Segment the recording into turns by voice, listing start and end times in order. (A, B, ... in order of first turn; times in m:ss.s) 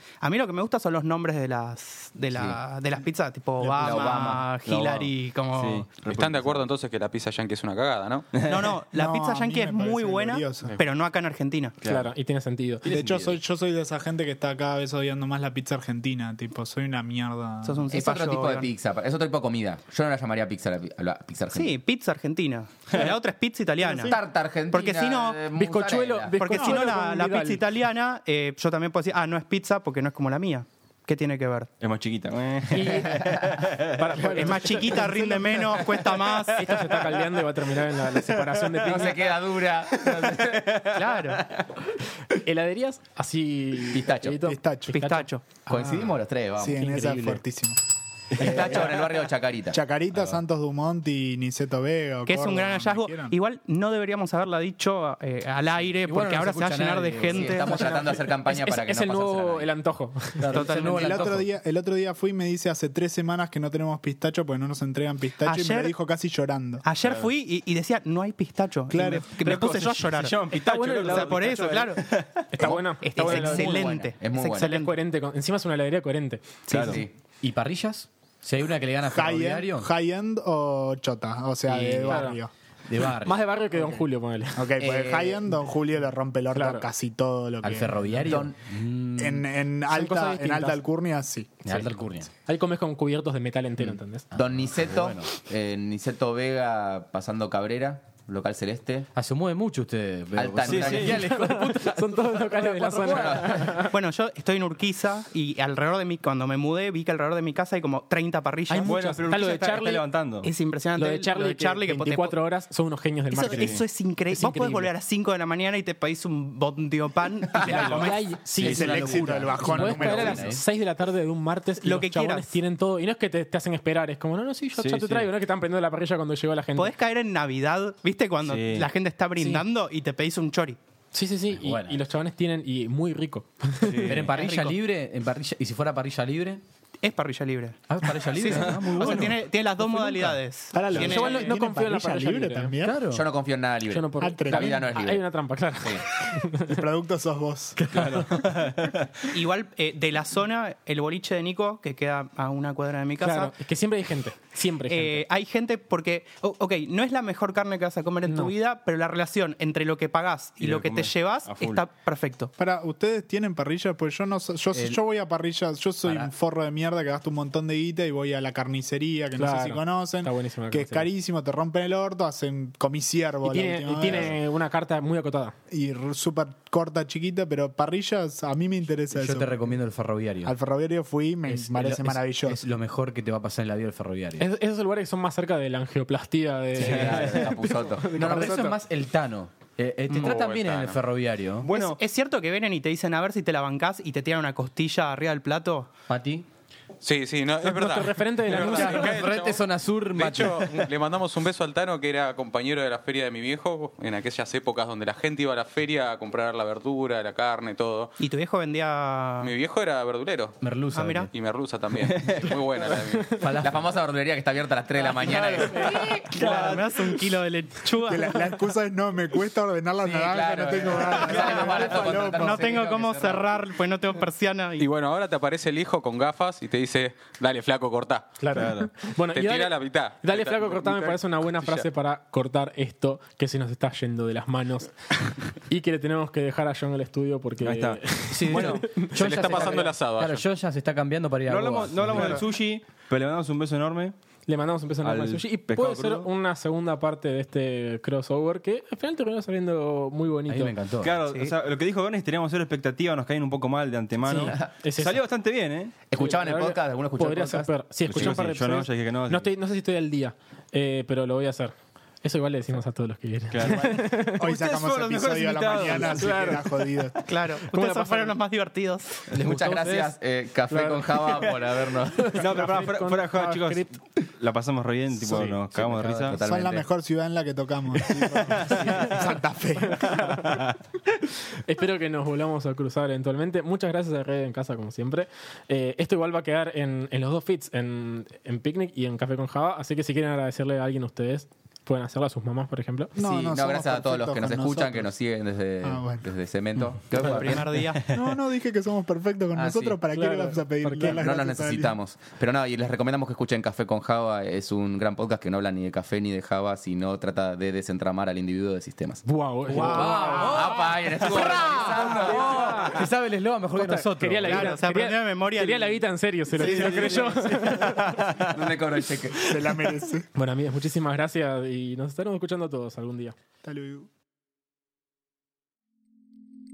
0:00.2-0:05.9 A
0:02.3-0:02.6 B
0:03.6-0:04.4 C
0:03.8-0:04.5 B
0:04.7-0:06.7 D
0:06.1-0:08.3 E
0:08.3-0:08.8 D
0:08.4-0:11.7 A
0:08.9-0:10.8 C
0:11.8-0:12.1 D
0:11.8-0:12.9 F
0:12.8-0:13.4 D
0:12.9-0:17.9 C
0:17.6-0:18.7 A
0:17.9-0:21.8 B
0:21.5-0:25.4 A
0:23.8-0:26.4 B
0:25.5-0:27.6 F
0:26.4-0:31.7 A
0:26.5-0:26.9 C
0:31.8-0:34.3 D
0:32.7-0:33.3 F
0:32.8-0:33.7 B
0:33.9-0:35.1 F
0:34.3-0:36.8 A
0:34.9-0:35.8 C
0:35.8-0:37.4 D
0:36.5-0:39.3 F
0:37.9-0:39.1 D
0:38.8-0:40.8 B
0:39.9-0:41.6 D
0:40.9-0:41.5 A
0:42.3-0:45.3 F
0:43.9-0:44.5 B
0:44.4-0:45.0 C
0:44.9-0:45.6 A
0:45.7-0:46.8 B
0:45.8-0:47.8 C
0:46.7-0:47.4 F
0:48.4-0:49.3 D
0:48.4-0:49.8 B
0:49.7-0:53.4 C
0:52.2-0:58.1 A
0:56.1-0:58.2 G
0:57.3-0:59.7 B
0:58.4-1:00.5 F
1:00.4-1:01.5 G
1:00.5-1:01.2 A
1:00.9-1:06.9 C
1:05.4-1:06.0 A
1:06.8-1:12.0 A
1:08.9-1:09.3 C
1:09.3-1:12.7 D
1:10.5-1:11.7 F
1:12.5-1:14.0 F
1:12.6-1:14.7 B
1:12.6-1:15.0 A
1:14.6-1:16.7 F
1:16.7-1:17.0 A
1:16.7-1:17.0 D
1:16.7-1:17.1 B
1:17.4-1:19.9 G
1:19.1-1:22.5 C
1:21.7-1:22.3 G
1:22.0-1:22.4 F
1:22.9-1:24.0 G
1:23.1-1:24.6 F
1:24.6-1:28.1 C
1:24.8-1:25.5 B
1:26.5-1:26.8 F
1:27.6-1:29.5 G
1:28.2-1:28.6 B
1:29.2-1:31.6 C
1:29.9-1:30.8 F
1:31.6-1:32.3 G
1:32.4-1:34.3 F
1:34.3-1:39.1 B
1:34.4-1:35.3 G
1:39.2-1:43.7 G
1:40.4-1:41.4 B
1:40.6-1:41.3 D
1:40.9-1:44.0 F
1:42.9-1:43.8 B
1:43.8-1:49.1 A
1:48.7-1:50.0 F
1:48.8-1:50.5 D
1:50.4-1:52.4 A
1:51.0-1:54.9 F
1:53.3-1:58.4 A
1:53.5-1:53.8 D
1:57.6-2:00.5 B
1:57.6-1:58.1 D
1:57.7-2:06.9 F
1:58.5-2:00.6 C
1:58.6-2:00.6 G
2:01.8-2:02.5 A
2:04.8-2:05.3 D
2:06.8-2:10.8 A
2:08.5-2:08.9 D
2:09.4-2:09.6 F
2:11.1-2:14.2 F
2:11.5-2:12.0 G
2:13.8-2:14.3 D
2:14.1-2:16.6 G
2:14.3-2:14.8 A
2:17.0-2:21.5 A
2:17.9-2:19.4 G
2:18.5-2:19.4 D
2:20.7-2:23.0 C
2:20.9-2:22.8 F
2:22.8-2:23.3 G
2:23.1-2:26.1 B
2:23.9-2:26.8 F
2:24.2-2:24.9 C
2:26.7-2:27.8 C
2:27.9-2:29.1 D
2:29.3-2:33.5 A
2:33.2-2:35.2 F
2:34.9-2:42.5 A
2:38.3-2:38.5 F
2:40.6-2:41.8 D
2:42.6-2:54.4 C
2:44.7-2:45.0 G
2:46.0-2:46.3 B
2:49.4-2:51.1 F
2:53.4-2:55.6 F
2:55.7-2:59.7 C
2:59.1-3:00.6 G
3:00.4-3:02.6 C
3:01.5-3:04.5 G
3:04.4-3:08.8 F
3:06.8-3:08.6 B
3:06.8-3:07.5 D
3:08.1-3:11.7 G
3:10.1-3:11.0 E
3:11.6-3:12.0 D
3:11.7-3:15.9 A
3:16.1-3:16.5 G
3:17.0-3:28.1 E
3:17.6-3:19.3 F
3:18.5-3:20.9 G
3:28.2-3:29.5 A
3:29.4-3:30.6 E
3:30.6-3:31.3 G
3:30.9-3:31.3 A
3:31.3-3:33.4 E
3:32.0-3:32.6 D
3:33.4-3:33.8 G
3:33.6-3:36.2 B
3:35.1-3:38.5 A
3:35.6-3:36.3 F
3:36.3-3:36.9 D
3:38.0-3:42.6 C
3:40.0-3:43.6 B
3:42.3-3:44.9 A
3:44.8-3:48.4 E
3:48.4-3:59.9 F
3:48.5-3:48.9 D
3:49.3-3:51.9 E
3:57.6-3:58.7 D
3:58.3-4:02.4 G
3:59.2-4:00.4 E
4:01.5-4:04.2 D
4:02.1-4:02.4 F
4:04.5-4:10.7 F
4:05.0-4:06.3 D
4:10.5-4:11.2 G
4:11.0-4:15.9 D
4:11.3-4:11.6 A
4:14.3-4:15.2 F
4:14.3-4:14.7 B
4:16.1-4:18.4 B
4:16.2-4:24.5 F
4:18.1-4:19.5 D
4:23.5-4:26.6 D
4:24.4-4:27.2 C
4:26.1-4:26.9 F
4:27.3-4:29.3 A
4:27.5-4:28.4 F
4:29.3-4:30.1 F
4:29.4-4:32.5 B
4:30.7-4:33.9 F
4:32.4-4:36.4 D
4:35.3-4:35.6 F
4:35.9-4:36.3 G
4:36.3-4:36.9 B
4:36.4-4:40.1 C
4:38.0-4:39.2 D
4:38.5-4:39.2 F
4:39.8-4:40.7 F
4:40.1-4:40.8 D
4:41.5-4:53.2 F
4:53.2-4:55.1 C
4:53.2-4:57.8 B
4:55.8-4:56.3 C
4:57.1-4:58.1 A
4:58.0-4:58.2 D
4:58.1-5:02.0 C
4:59.5-5:00.0 B
5:00.1-5:01.2 F
5:01.1-5:13.0 B
5:09.2-5:10.8 F
5:09.7-5:14.8 G
5:12.1-5:13.0 F
5:13.7-5:18.2 F
5:14.4-5:16.0 A
5:16.5-5:18.8 D
5:16.6-5:17.4 A
5:18.4-5:19.5 B
5:19.4-5:20.3 C
5:20.3-5:23.4 F
5:23.6-5:24.1 C